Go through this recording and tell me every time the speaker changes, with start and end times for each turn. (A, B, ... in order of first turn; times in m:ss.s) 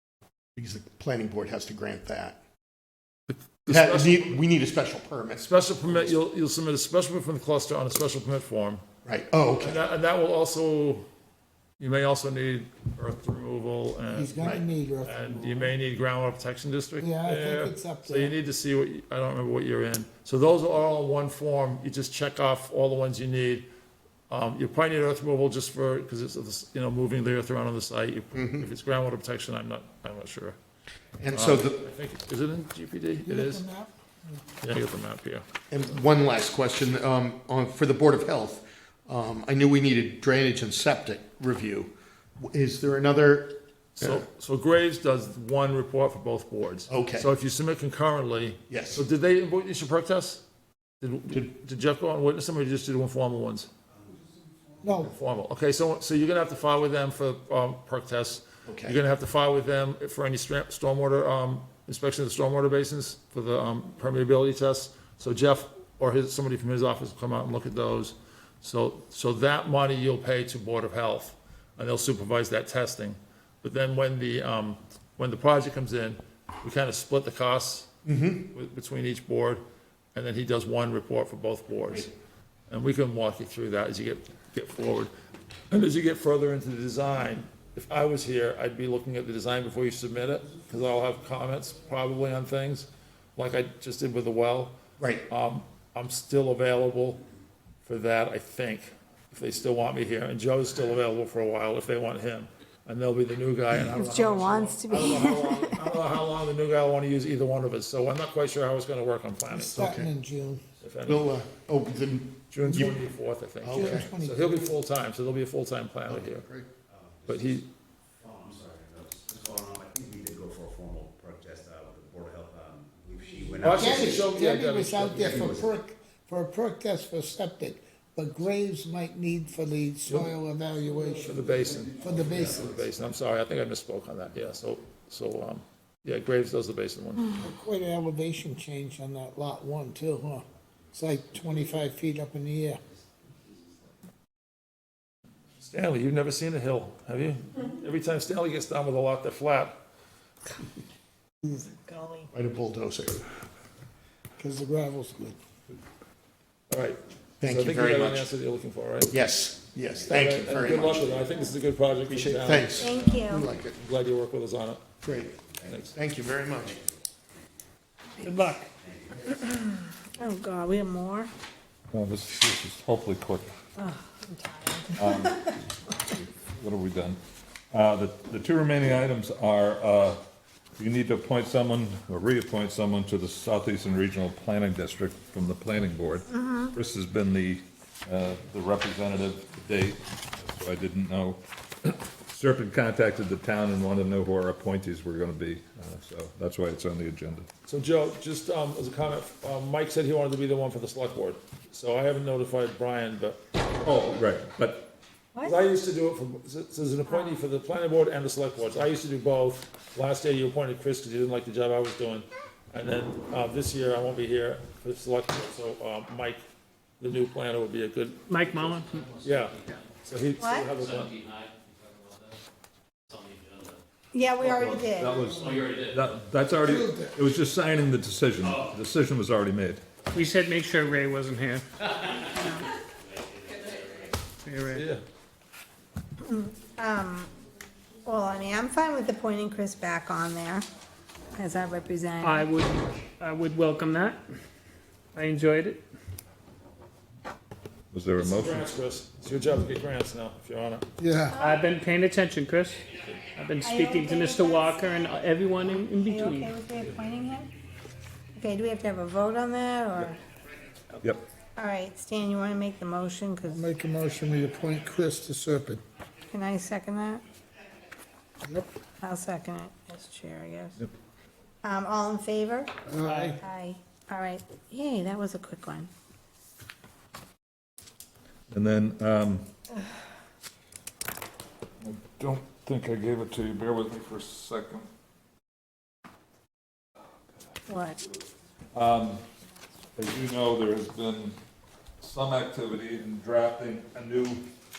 0:00.6-0:02.4 A
0:03.6-0:04.4 B
0:03.7-0:06.2 A
0:05.4-0:08.8 B
0:09.0-0:09.8 A
0:09.6-0:11.0 B
0:11.8-0:14.4 B
0:14.1-0:15.5 C
0:14.4-0:14.6 A
0:15.0-0:23.7 B
0:17.0-0:18.3 C
0:24.3-0:30.6 B
0:28.3-0:28.7 A
0:31.2-0:31.8 A
0:31.3-0:33.6 B
0:33.2-0:34.4 C
0:34.6-0:35.4 B
0:35.7-0:44.2 A
0:44.0-0:50.4 B
0:46.9-0:47.3 A
0:48.7-0:49.0 A
0:51.0-0:53.7 B
0:54.8-0:55.1 C
0:55.0-1:17.9 B
0:58.6-0:59.0 A
1:18.0-1:18.5 A
1:18.5-1:19.6 B
1:20.1-1:22.1 B
1:22.7-1:25.1 B
1:25.7-1:37.2 B
1:35.0-1:35.2 A
1:37.8-1:49.9 B
1:43.7-1:45.8 D
1:49.5-1:50.6 C
1:49.7-1:50.1 A
1:50.8-1:51.3 B
1:51.0-1:53.0 A
1:52.5-1:56.5 B
1:52.7-1:52.9 C
1:53.6-1:54.1 A
1:53.7-1:54.7 C
1:56.1-1:56.7 A
1:56.9-1:57.6 E
1:57.2-1:57.7 B
1:58.2-2:04.3 E
2:03.6-2:12.7 C
2:03.6-2:05.5 B
2:05.2-2:05.6 E
2:10.1-2:10.4 B
2:11.0-2:17.3 B
2:17.4-2:22.8 C
2:25.6-2:29.7 B
2:31.7-2:32.3 D
2:32.3-2:33.2 A
2:34.4-2:35.4 C
2:36.7-2:39.2 B
2:37.4-2:38.3 A
2:39.1-2:41.1 A
2:40.0-2:43.0 B
2:42.1-2:43.8 A
2:42.8-2:43.4 D
2:43.8-2:45.0 B
2:45.0-2:45.3 A
2:45.6-2:45.9 B
2:45.9-2:46.8 A
2:48.2-2:48.7 F
2:49.5-2:51.3 D
2:51.9-2:53.5 G
2:53.8-2:55.5 D
2:54.9-2:57.2 G
2:57.7-3:00.2 G
3:00.8-3:17.5 G
3:06.3-3:06.7 D
3:17.6-3:23.4 B
3:23.8-3:24.9 G
3:25.4-3:36.4 B
3:37.0-3:38.2 B
3:38.3-3:39.1 F
3:39.2-3:41.2 B
3:40.4-3:40.7 D
3:44.1-3:45.5 D
3:44.4-3:49.8 G
3:46.6-3:47.2 C
3:50.1-3:51.6 F
3:52.2-3:52.7 D
3:54.4-3:54.8 F
3:54.7-3:55.0 B
3:56.2-3:57.3 D
3:58.0-4:00.6 D
4:01.3-4:02.5 D
4:02.2-4:04.2 F
4:05.1-4:05.8 F
4:07.9-4:08.7 G
4:08.2-4:10.8 B
4:11.0-4:11.4 C
4:11.3-4:11.7 D
4:11.4-4:12.8 F
4:13.4-4:16.5 F
4:13.6-4:17.5 D
4:18.3-4:20.2 D
4:21.6-4:23.6 D
4:23.4-4:25.8 C
4:26.3-4:27.2 D
4:29.0-4:30.8 D
4:31.6-4:32.7 D
4:32.8-4:33.4 C
4:33.1-4:33.4 F
4:33.4-4:35.9 D
4:38.5-4:39.4 G
4:41.8-4:44.9 G
4:47.7-4:48.0 D
4:48.7-4:49.2 G
4:50.0-4:51.3 G
4:52.0-4:54.4 G